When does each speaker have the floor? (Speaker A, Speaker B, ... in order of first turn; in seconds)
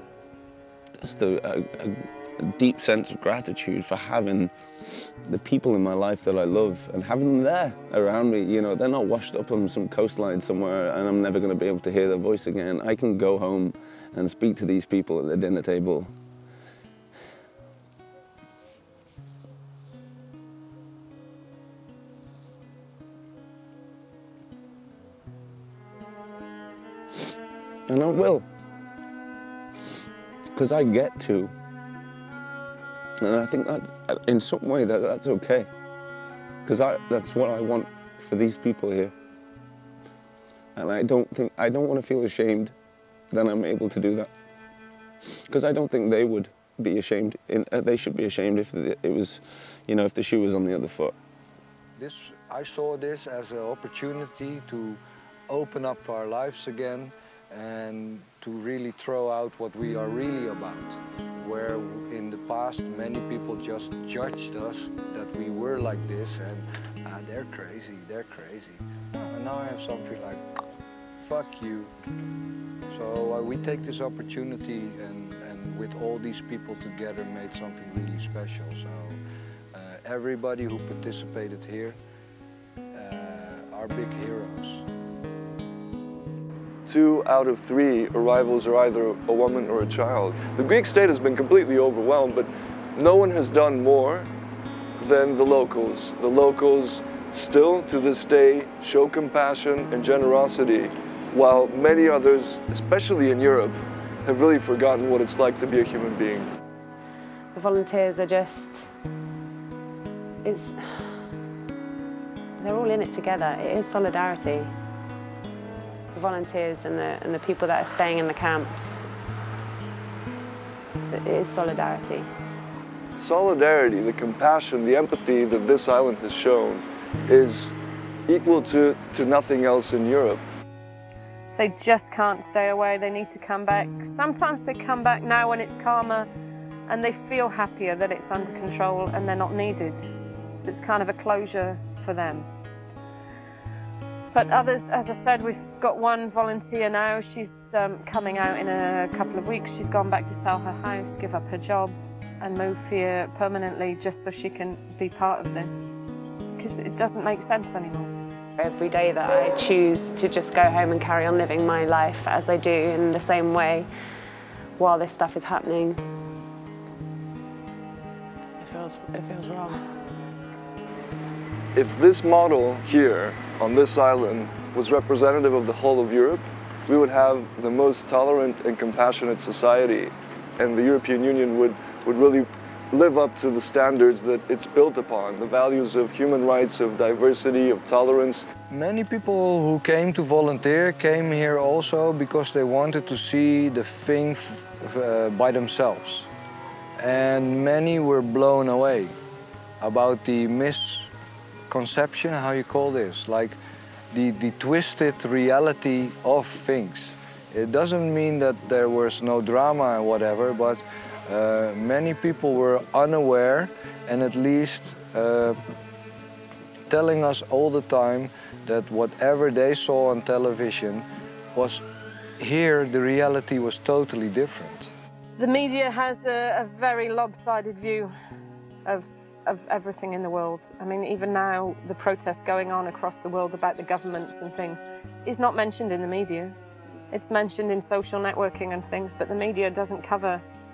Speaker A: 1.0-16.1, 27.9-28.4, 30.5-31.5, 33.2-35.7, 36.6-39.1, 40.8-42.7, 43.3-44.3, 45.5-51.1
Speaker B: 52.0-70.4, 71.2-71.9, 72.9-79.2, 79.7-82.0, 82.9-84.8, 188.7-196.3, 197.0-199.1, 199.8-201.1, 201.7-203.6, 204.1-215.6, 216.9-221.8, 222.4-224.9
Speaker C: 86.8-94.3, 95.0-106.5, 123.2-127.7, 128.3-130.4, 171.7-188.5
Speaker D: 107.5-108.8, 110.4-111.2, 112.6-114.7, 116.1-119.0, 121.1-122.3, 158.6-163.9, 164.8-166.0, 168.6-169.8
Speaker E: 131.6-136.3, 136.9-142.5, 144.3-155.9, 156.6-158.1, 225.4-228.1, 228.8-236.5, 237.1-240.4